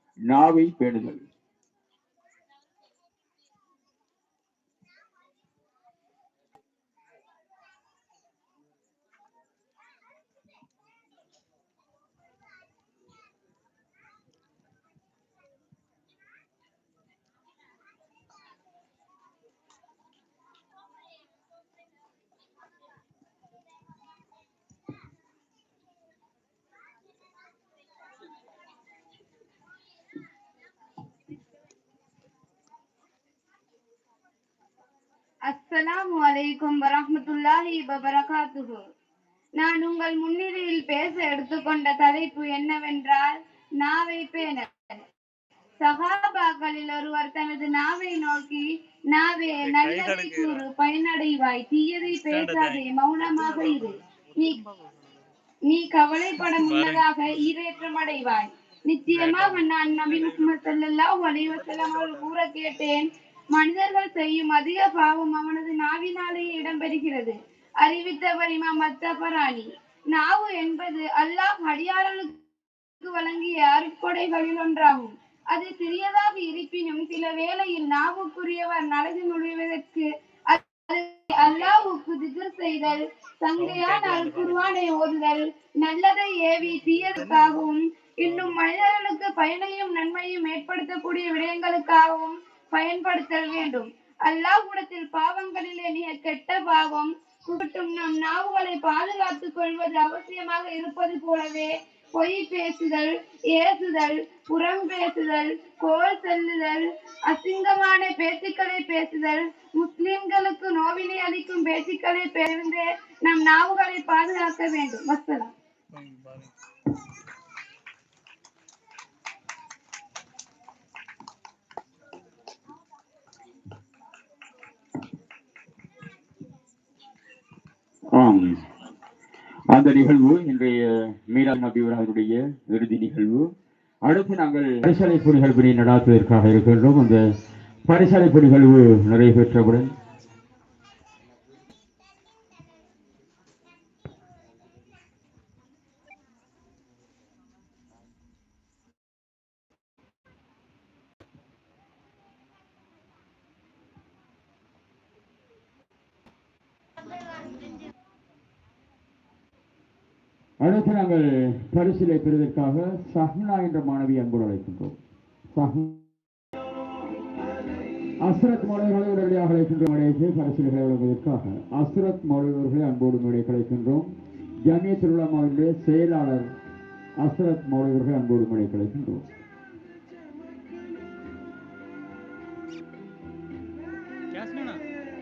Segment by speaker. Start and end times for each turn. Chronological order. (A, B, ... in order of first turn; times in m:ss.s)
0:00.3-0:01.2 A
0:35.5-0:38.8 B
0:39.6-0:44.7 B
0:45.8-0:54.6 B
0:49.6-0:50.7 C
0:52.1-0:55.1 C
0:55.7-1:12.4 B
0:56.5-0:57.1 C
0:59.1-1:00.7 C
1:01.4-1:02.3 C
1:13.0-1:55.5 B
1:23.6-1:24.8 C
1:26.6-1:27.6 C
1:28.2-1:28.6 C
1:55.9-1:56.5 C
2:08.1-2:08.6 A
2:09.7-2:13.5 A
2:14.0-2:17.3 A
2:17.9-2:19.9 A
2:40.6-2:45.0 A
2:45.6-2:46.0 A
2:48.2-2:54.1 A
2:54.6-2:56.5 A
2:57.2-2:59.2 A
3:04.3-3:04.8 C